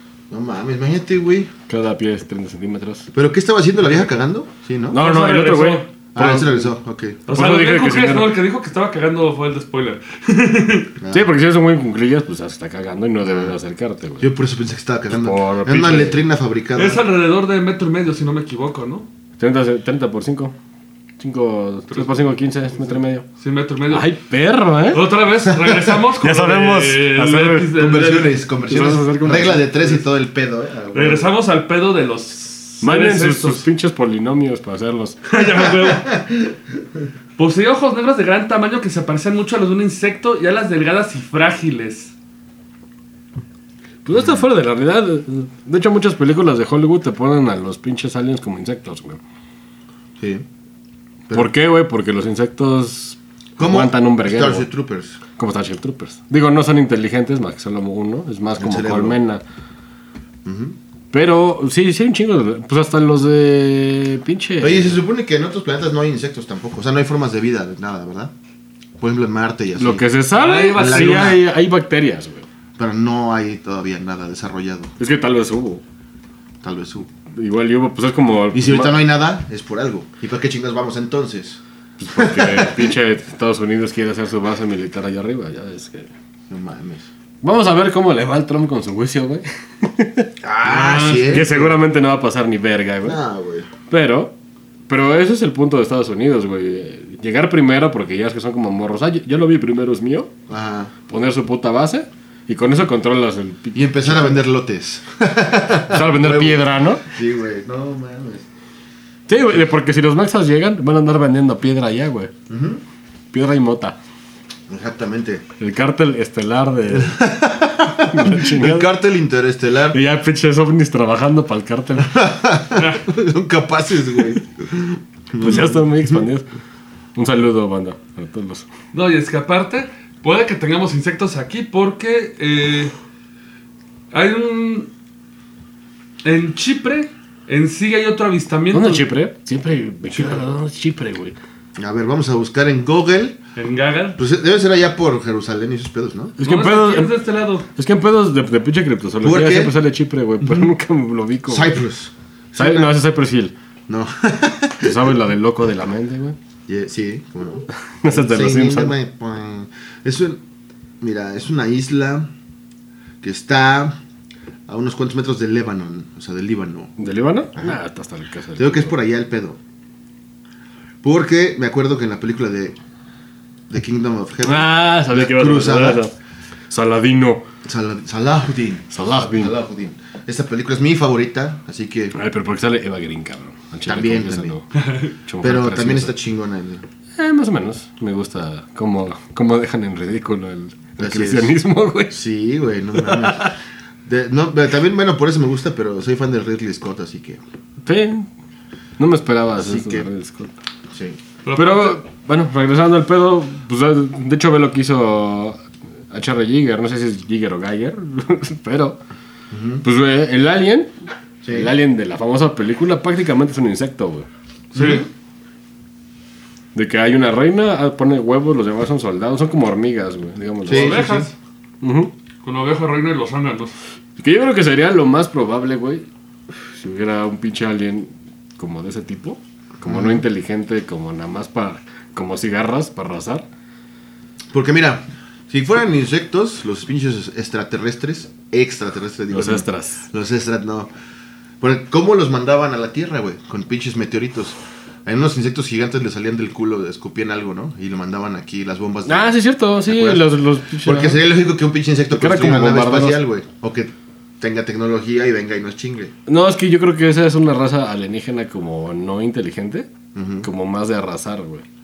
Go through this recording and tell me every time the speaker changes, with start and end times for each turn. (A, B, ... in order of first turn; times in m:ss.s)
0:00.3-0:01.5 A
0:01.7-0:03.1 B
0:03.1-0:05.0 A
0:04.9-0:06.7 B
0:04.9-0:05.9 C
0:06.1-0:07.2 A
0:07.3-0:10.9 C
0:07.3-0:08.3 B
0:11.0-0:11.3 A
0:11.1-0:14.3 B
0:13.2-0:13.6 A
0:14.2-0:17.0 A
0:15.1-0:16.2 B
0:16.8-0:19.1 C
0:19.4-0:20.5 B
0:21.2-0:23.2 B
0:21.9-0:24.1 C
0:23.9-0:25.1 B
0:24.9-0:28.4 C
0:25.6-0:25.9 A
0:26.2-0:27.8 B
0:27.7-0:31.3 A
0:28.7-0:30.0 B
0:30.9-0:33.7 C
0:32.8-0:35.2 B
0:35.3-0:36.2 C
0:35.8-0:36.5 A
0:37.4-0:42.1 C
0:44.0-0:49.2 B
0:44.2-0:44.4 A
0:51.3-0:54.7 B
0:53.6-0:55.2 A
0:55.4-0:59.4 B
0:58.6-0:59.2 A
1:00.4-1:00.8 A
1:01.1-1:05.0 B
1:04.6-1:08.3 A
1:09.0-1:10.0 A
1:09.8-1:12.5 B
1:10.3-1:11.4 C
1:10.8-1:11.4 A
1:12.8-1:15.0 A
1:15.0-1:15.8 B
1:16.6-1:17.1 A
1:17.3-1:19.0 B
1:18.5-1:21.6 A
1:22.0-1:26.1 B
1:22.1-1:22.9 A
1:26.5-1:27.1 A
1:27.4-1:30.3 B
1:30.4-1:31.8 A
1:30.6-1:31.5 C
1:31.3-1:33.2 B
1:33.0-1:33.7 A
1:33.9-1:34.3 B
1:34.9-1:40.3 B
1:40.5-1:40.9 A
1:41.1-1:44.4 B
1:43.7-1:48.4 A
1:45.9-1:47.0 B
1:49.3-1:52.3 B
1:52.5-1:52.8 A
1:53.3-1:54.0 B
1:54.7-1:55.4 A
1:55.6-1:57.2 B
1:56.9-2:00.0 A
1:58.1-1:58.9 B
1:59.9-2:02.2 B
2:02.0-2:06.2 A
2:02.8-2:03.0 C
2:05.4-2:06.4 B
2:07.2-2:08.7 B
2:08.9-2:12.9 C
2:14.1-2:14.9 C
2:16.2-2:19.1 C
2:18.7-2:21.4 B
2:21.8-2:23.4 A
2:23.6-2:24.2 C
2:24.2-2:26.4 A
2:26.4-2:27.2 B
2:26.4-2:27.7 C
2:27.8-2:31.8 B
2:29.2-2:29.8 A
2:31.5-2:32.9 A
2:32.6-2:33.6 B
2:33.9-2:35.1 A
2:34.8-2:36.4 B
2:36.7-2:40.4 A
2:38.0-2:39.0 B
2:41.0-2:42.3 A
2:43.2-2:44.0 A
2:44.7-2:47.0 A
2:47.0-2:48.9 B
2:48.6-2:49.6 A
2:51.0-2:52.8 A
2:53.7-2:56.0 A
2:54.4-2:56.1 B
2:56.7-2:57.4 B
2:57.6-3:02.2 A
2:58.9-2:59.6 B
3:02.1-3:04.7 B
3:03.9-3:04.6 A
3:04.8-3:05.1 C
3:05.2-3:06.2 B
3:05.4-3:06.8 A
3:07.2-3:12.2 B
3:11.0-3:11.6 A
3:12.1-3:13.5 A
3:13.0-3:13.5 B
3:14.1-3:17.4 A
3:17.8-3:18.3 B
3:19.0-3:20.5 B
3:19.6-3:20.1 A
3:20.9-3:21.2 A
3:21.4-3:22.0 C
3:21.6-3:29.0 B
3:29.5-3:29.8 A
3:29.8-3:30.9 B
3:31.4-3:31.7 A
3:31.5-3:34.3 B
3:34.7-3:35.0 C
3:34.8-3:35.1 A
3:36.7-3:41.1 B
3:40.6-3:41.3 A
3:40.7-3:41.3 C
3:41.8-3:42.1 B
3:42.4-3:43.7 C
3:44.2-3:46.1 B
3:46.7-3:53.5 B
3:49.8-3:50.2 A
3:54.5-4:00.9 A
3:59.3-4:00.0 B
4:01.6-4:10.3 A
4:09.1-4:11.2 B
4:10.8-4:16.1 A
4:12.1-4:13.2 B
4:16.3-4:19.9 B
4:20.2-4:20.5 A
4:20.4-4:21.6 B